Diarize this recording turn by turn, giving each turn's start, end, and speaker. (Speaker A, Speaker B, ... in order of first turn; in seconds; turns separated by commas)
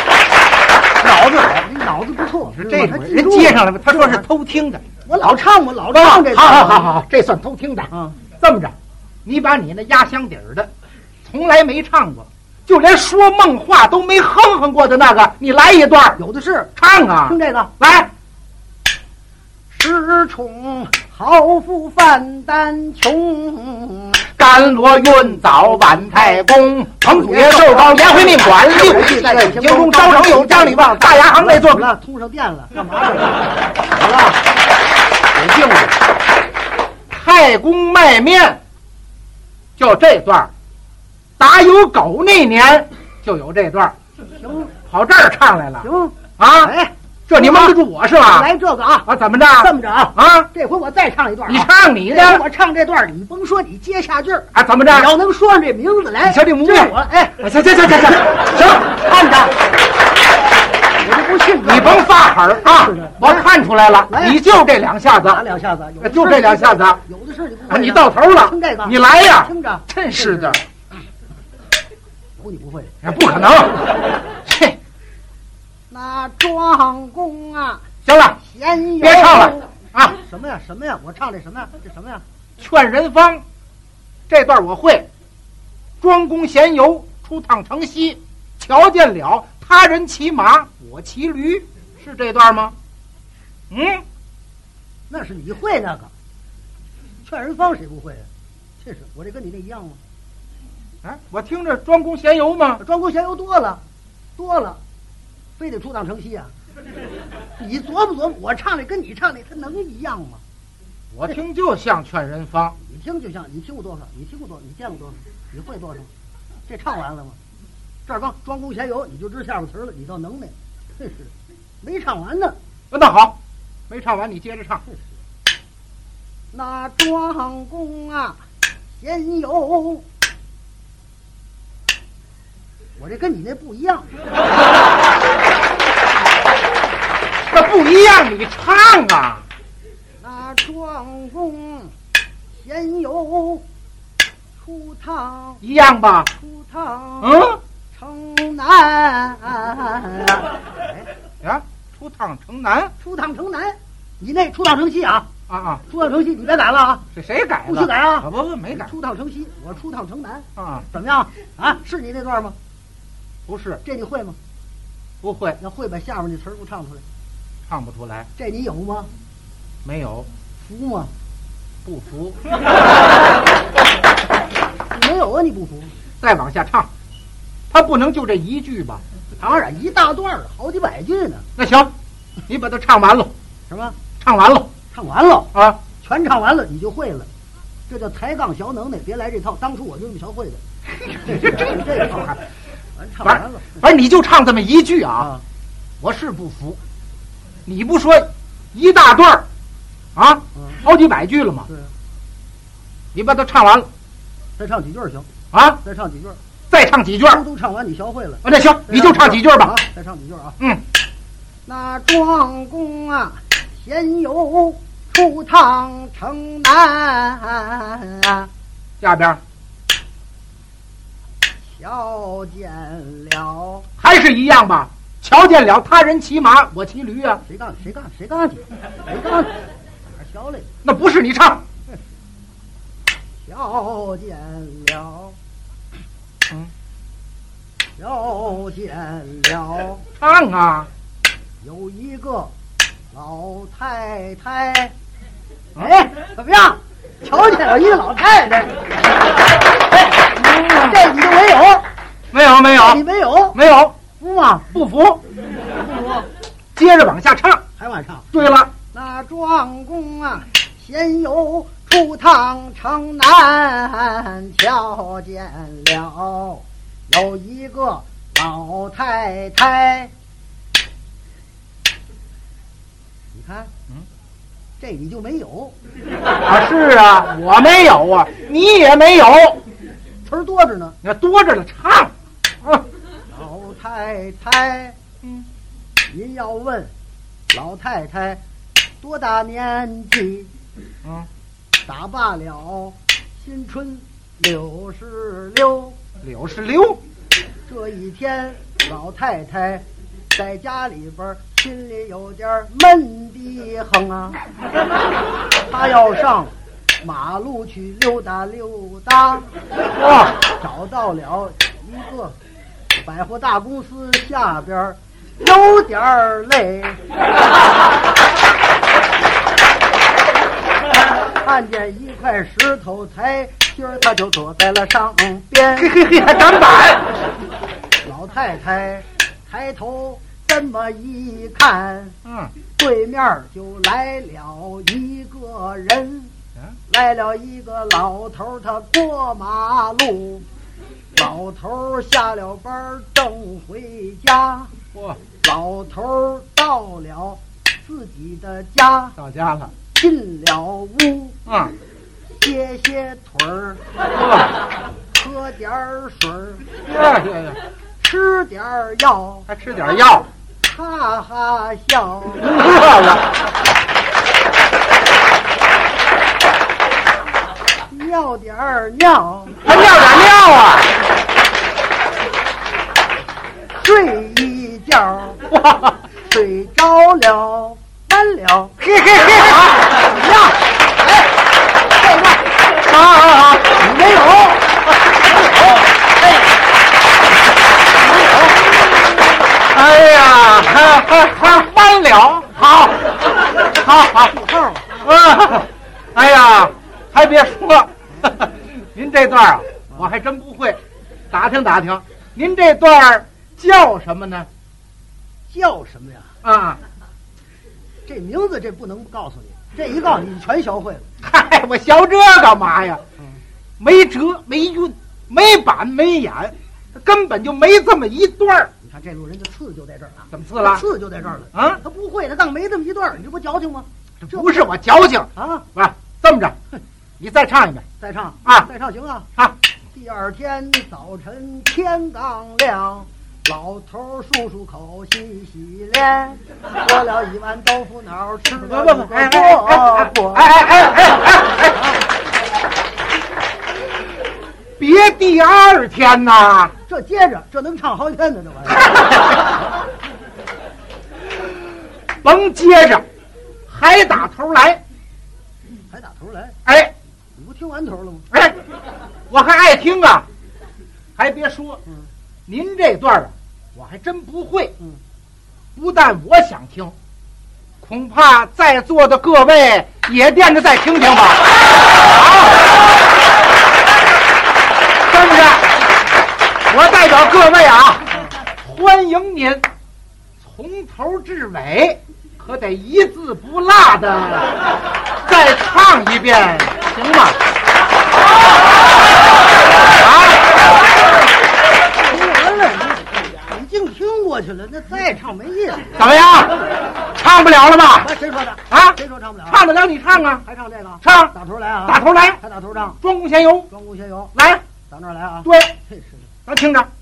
Speaker A: 1.0-4.3, Speaker B: 2.5-4.8, Speaker A: 5.0-6.9, Speaker B: 5.9-10.7, Speaker A: 7.9-8.2, Speaker B: 11.2-16.2, Speaker A: 16.2-17.7, Speaker B: 16.8-18.1, Speaker A: 19.7-24.2, Speaker B: 24.3-31.9, Speaker A: 25.7-26.4, Speaker A: 27.0-34.4, Speaker A: 35.4-36.0, Speaker B: 37.1-38.6, Speaker B: 39.8-40.5, Speaker B: 41.4-44.0, Speaker A: 44.3-44.8, Speaker B: 44.8-45.9, Speaker A: 45.8-49.1, Speaker B: 46.4-46.7, Speaker B: 47.3-48.5, Speaker B: 49.1-50.5, Speaker A: 49.6-57.4, Speaker B: 51.5-52.4, Speaker B: 54.5-55.1, Speaker B: 56.2-58.7, Speaker A: 58.5-59.5, Speaker A: 61.0-62.1, Speaker B: 61.6-65.4, Speaker A: 62.6-63.5, Speaker A: 64.1-64.4, Speaker A: 65.2-70.6, Speaker B: 66.0-67.0, Speaker B: 67.7-70.7, Speaker A: 72.4-73.0, Speaker B: 73.0-74.8, Speaker A: 75.9-77.9, Speaker B: 78.0-78.4, Speaker A: 78.4-82.2, Speaker B: 79.0-80.2, Speaker B: 82.6-83.4, Speaker B: 84.3-85.1, Speaker B: 86.0-92.8, Speaker B: 93.7-94.0, Speaker A: 95.1-96.1, Speaker A: 97.2-98.3, Speaker A: 98.8-100.0, Speaker B: 101.0-102.8, Speaker A: 102.8-103.8, Speaker A: 104.4-104.8, Speaker A: 105.6-106.5, Speaker A: 107.6-110.4, Speaker B: 111.1-112.8, Speaker A: 112.8-116.1, Speaker A: 116.7-117.4, Speaker A: 118.1-122.6, Speaker B: 122.9-123.4, Speaker B: 123.9-124.8, Speaker A: 126.5-128.4, Speaker A: 129.0-130.0, Speaker A: 133.0-134.1, Speaker B: 137.5-139.5, Speaker A: 140.2-141.9, Speaker A: 142.5-143.7, Speaker A: 144.6-145.6, Speaker B: 145.6-146.3, Speaker A: 146.3-151.1, Speaker B: 147.2-147.6, Speaker B: 151.4-152.9, Speaker A: 153.0-155.3, Speaker B: 155.5-155.8, Speaker A: 155.9-157.1, Speaker B: 157.1-158.9, Speaker A: 157.7-162.6, Speaker B: 160.6-160.9, Speaker B: 163.5-163.8, Speaker A: 163.8-164.4, Speaker B: 165.2-165.6, Speaker A: 165.6-167.0, Speaker B: 167.7-168.3, Speaker A: 168.4-169.1, Speaker B: 169.8-170.3, Speaker A: 170.6-171.1, Speaker B: 171.8-172.4, Speaker A: 174.9-175.9, Speaker B: 176.2-176.9, Speaker B: 177.7-179.0, Speaker A: 179.3-181.5, Speaker B: 181.6-181.9, Speaker B: 182.5-183.3, Speaker A: 183.7-184.0, Speaker B: 184.2-184.7, Speaker A: 184.9-187.3, Speaker B: 185.5-185.8, Speaker A: 187.9-190.6, Speaker B: 190.9-192.4, Speaker A: 191.3-192.4, Speaker A: 193.0-193.8, Speaker B: 193.2-195.3, Speaker B: 196.0-196.8, Speaker B: 197.7-199.4, Speaker B: 200.2-201.7, Speaker B: 203.1-203.9, Speaker A: 204.6-205.3, Speaker B: 205.5-205.8, Speaker A: 205.8-206.4, Speaker B: 206.7-207.4, Speaker A: 207.3-210.6, Speaker B: 208.4-209.8, Speaker A: 211.7-218.5, Speaker B: 219.0-219.4, Speaker A: 221.7-223.9, Speaker B: 224.0-227.4, Speaker A: 227.4-230.7, Speaker B: 230.8-231.6, Speaker A: 233.4-235.4, Speaker A: 238.0-240.0, Speaker B: 240.2-240.9, Speaker A: 241.6-242.5, Speaker A: 243.1-244.9, Speaker A: 245.8-248.8, Speaker B: 250.4-251.0, Speaker A: 250.8-251.9, Speaker B: 252.3-253.0, Speaker A: 252.8-253.6, Speaker B: 253.6-254.0, Speaker A: 254.1-254.8, Speaker B: 254.7-255.2, Speaker A: 255.8-256.3, Speaker B: 256.8-257.6, Speaker A: 257.8-258.3, Speaker B: 258.3-258.7, Speaker A: 258.9-270.1, Speaker A: 273.3-273.7, Speaker A: 274.8-275.8, Speaker B: 276.5-279.6, Speaker A: 280.2-281.0, Speaker B: 281.0-282.8, Speaker A: 283.3-285.0, Speaker A: 286.1-286.9, Speaker A: 287.5-288.4, Speaker A: 289.0-290.5, Speaker A: 291.9-296.0, Speaker B: 296.2-297.0, Speaker A: 297.7-304.4, Speaker A: 305.7-309.5, Speaker B: 310.0-310.3, Speaker A: 310.4-312.4, Speaker A: 312.9-317.0, Speaker A: 321.2-325.9, Speaker B: 325.8-327.1, Speaker A: 328.0-336.3, Speaker B: 332.2-332.5, Speaker A: 336.9-340.4, Speaker A: 341.2-344.7, Speaker B: 344.9-345.2, Speaker A: 345.4-349.2, Speaker B: 349.2-349.7, Speaker A: 349.9-351.4, Speaker B: 351.5-351.8, Speaker A: 352.3-353.8, Speaker B: 354.2-354.5, Speaker A: 355.1-356.7, Speaker B: 356.9-357.6, Speaker A: 358.0-359.5, Speaker B: 359.5-360.3, Speaker A: 360.6-362.6, Speaker B: 362.5-363.2, Speaker A: 367.9-369.7, Speaker B: 369.6-370.9, Speaker A: 373.7-375.4, Speaker B: 375.5-375.9, Speaker A: 376.1-378.8, Speaker B: 378.8-379.9, Speaker A: 379.9-381.3, Speaker A: 381.9-382.4, Speaker B: 382.8-383.8, Speaker A: 383.7-384.7, Speaker A: 385.3-385.8, Speaker A: 388.1-388.6, Speaker B: 389.7-393.1, Speaker B: 393.8-394.3, Speaker A: 394.2-395.0, Speaker B: 395.0-400.8, Speaker B: 401.3-404.5, Speaker A: 405.5-406.4, Speaker B: 406.4-406.8, Speaker A: 408.1-411.1, Speaker B: 411.2-413.0, Speaker B: 413.8-418.7, Speaker A: 418.8-424.6, Speaker B: 420.3-420.9, Speaker B: 421.6-421.8, Speaker B: 424.2-426.6, Speaker A: 425.4-425.7, Speaker B: 427.2-427.9, Speaker A: 428.0-429.3, Speaker A: 429.9-440.5, Speaker B: 438.5-441.8, Speaker B: 444.8-446.7, Speaker A: 446.9-448.9, Speaker B: 448.9-449.3, Speaker B: 452.2-453.1, Speaker B: 453.7-454.8, Speaker A: 455.9-456.6, Speaker B: 456.7-456.9, Speaker A: 457.4-458.3, Speaker B: 459.3-460.3, Speaker B: 461.2-461.8, Speaker B: 462.5-464.7, Speaker B: 465.8-466.9, Speaker B: 467.8-472.7, Speaker B: 475.1-475.7, Speaker B: 476.7-479.7, Speaker B: 480.4-484.6, Speaker B: 485.2-487.4, Speaker B: 490.0-490.5, Speaker A: 492.0-496.0, Speaker B: 496.0-498.1, Speaker A: 498.0-499.6, Speaker B: 498.7-500.4, Speaker A: 500.4-503.0, Speaker B: 501.0-501.3, Speaker B: 501.9-502.4, Speaker B: 503.0-503.7, Speaker A: 503.7-506.3, Speaker B: 504.4-504.6, Speaker B: 505.4-505.7, Speaker B: 506.5-506.9